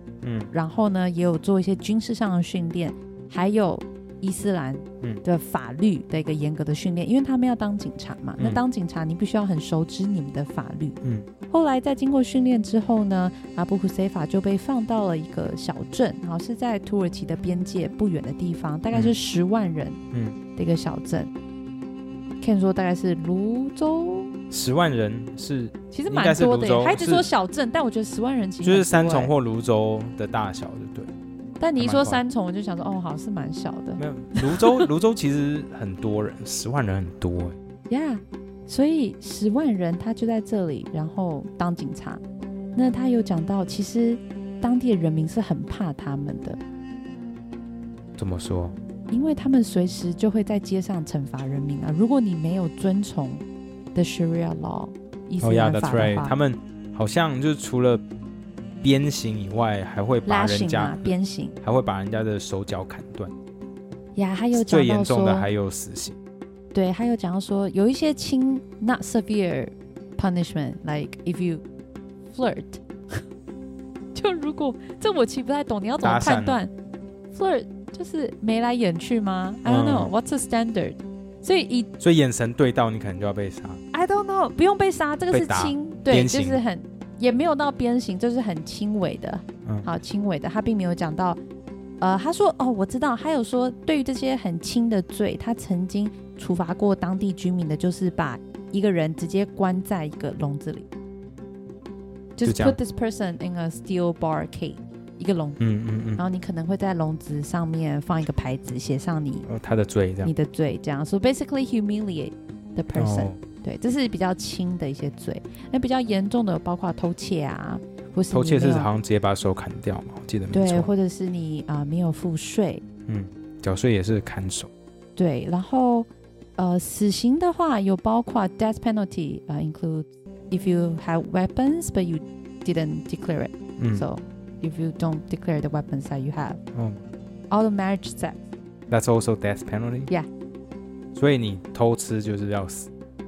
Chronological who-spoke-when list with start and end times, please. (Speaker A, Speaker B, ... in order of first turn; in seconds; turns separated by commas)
Speaker A: 0.2-0.5, Speaker B: 0.5-20.0, Speaker B: 20.6-21.3, Speaker B: 22.4-24.3, Speaker A: 24.5-27.3, Speaker B: 25.9-29.3, Speaker A: 28.6-31.1, Speaker B: 31.6-34.8, Speaker A: 31.8-32.2, Speaker A: 34.0-37.6, Speaker B: 37.9-42.2, Speaker B: 42.8-46.6, Speaker A: 48.2-48.8, Speaker B: 49.1-53.4, Speaker B: 53.9-56.4, Speaker A: 55.4-58.0, Speaker A: 58.8-63.3, Speaker B: 60.2-61.6, Speaker B: 64.2-65.5, Speaker A: 64.5-66.2, Speaker B: 66.7-71.6, Speaker B: 72.3-73.2, Speaker B: 74.1-76.7, Speaker A: 76.0-76.6, Speaker B: 77.3-81.9, Speaker A: 79.6-80.1, Speaker A: 82.0-83.8, Speaker B: 83.9-91.4, Speaker A: 85.3-86.6, Speaker B: 92.0-100.9, Speaker B: 102.4-105.6, Speaker A: 102.4-102.8, Speaker A: 105.6-106.2, Speaker B: 106.2-109.5, Speaker A: 109.5-110.3, Speaker B: 110.2-118.9, Speaker A: 113.0-113.4, Speaker A: 118.3-120.9, Speaker B: 120.5-122.8, Speaker A: 123.1-124.7, Speaker B: 125.2-136.6, Speaker A: 133.8-134.1, Speaker A: 136.8-137.0, Speaker B: 137.5-138.4, Speaker A: 138.9-140.1, Speaker A: 141.1-142.9